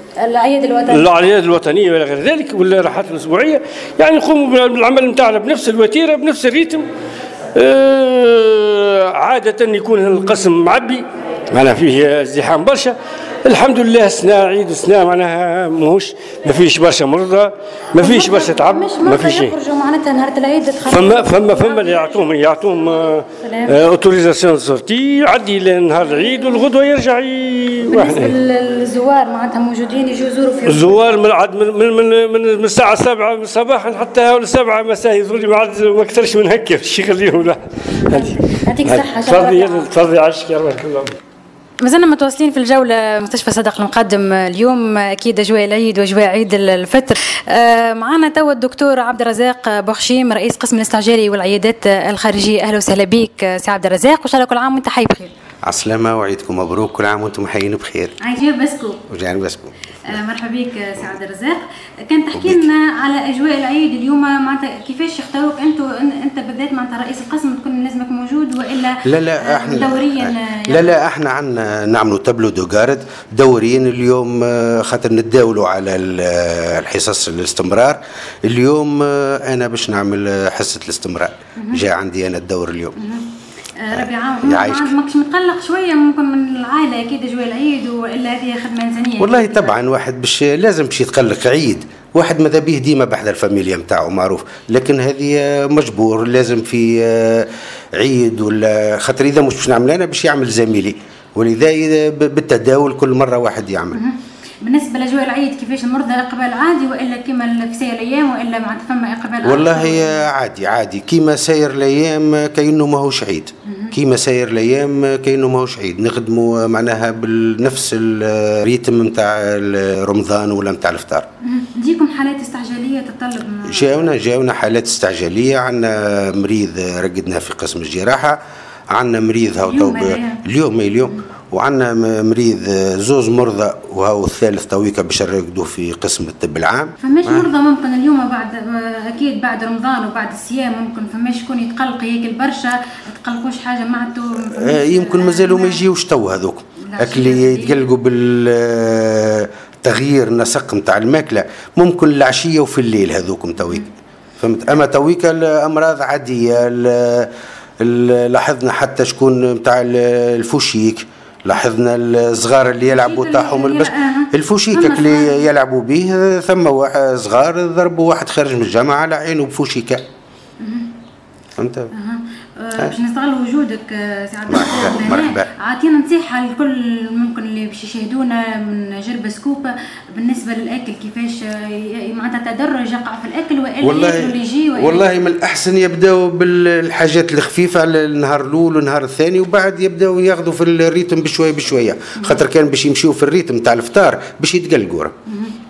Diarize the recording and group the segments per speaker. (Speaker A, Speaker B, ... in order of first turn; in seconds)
Speaker A: 0.2-1.1, 18.0-22.2, 23.4-23.8, 27.9-31.0, 38.0-39.9, 41.8-55.3, 58.2-59.0, 60.1-71.0, 81.6-81.8, 83.0-83.3, 83.8-89.8, 103.9-110.2, 113.7-114.0, 121.4-124.1, 129.6-130.4, 137.0-145.8, 146.8-147.9, 162.8-165.5, 170.6-170.9, 171.9-185.1, 192.2-192.4, 195.3-195.6
Speaker B: 0.9-6.9, 7.5-19.6, 20.9-28.4, 30.7-41.1
Speaker C: 55.6-58.1, 59.1-59.8, 62.3-62.7, 69.0-83.0, 83.9-84.9, 89.2-104.0, 109.4-121.3, 123.7-128.4, 128.9-137.5, 144.5-170.1, 171.6-171.9, 174.5-175.5, 183.8-195.1